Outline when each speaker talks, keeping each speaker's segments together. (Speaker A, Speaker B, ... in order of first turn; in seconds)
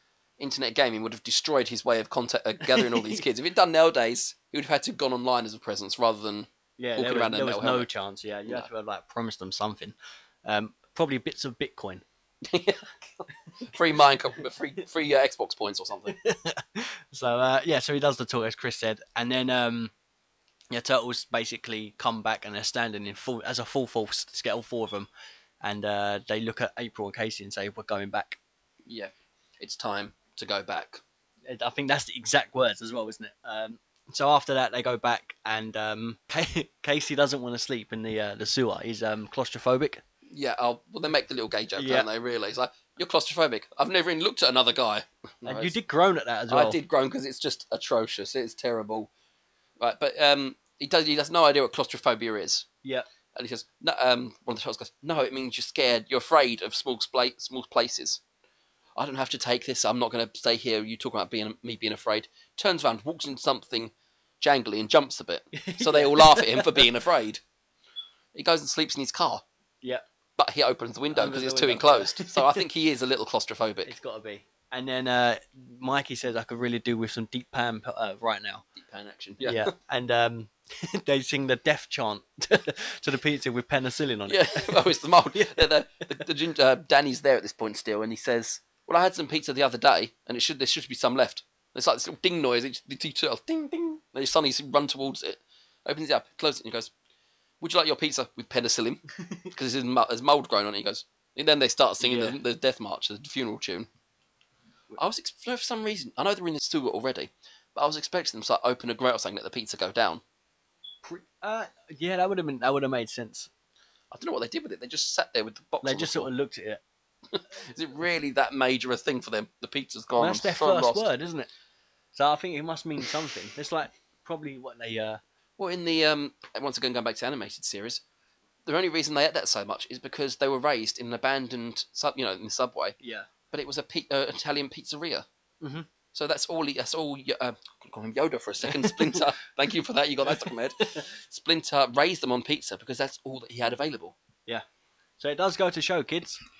Speaker A: 0.4-7.9, 12.4-16.1, 28.9-31.0, 40.3-45.7, 46.5-49.1, 49.8-52.6, 53.3-58.2, 59.0-67.4, 68.3-69.4, 70.4-73.9, 78.8-79.7, 84.3-96.9, 97.6-103.9, 105.0-110.2, 114.1-116.3, 117.3-121.1, 125.6-128.0, 128.7-132.9, 133.5-135.2, 136.1-144.2
Speaker B: 2.7-3.2, 6.8-12.0, 16.1-19.9, 20.7-25.1, 25.6-28.4, 31.5-40.0, 41.8-42.1, 45.4-46.8, 65.5-66.9, 71.1-72.6, 73.8-78.6, 79.4-85.6, 102.0-102.4, 111.0-113.5, 115.8-116.8, 120.2-121.5, 122.1-125.2, 133.0-133.3, 135.6-135.9, 145.2-146.4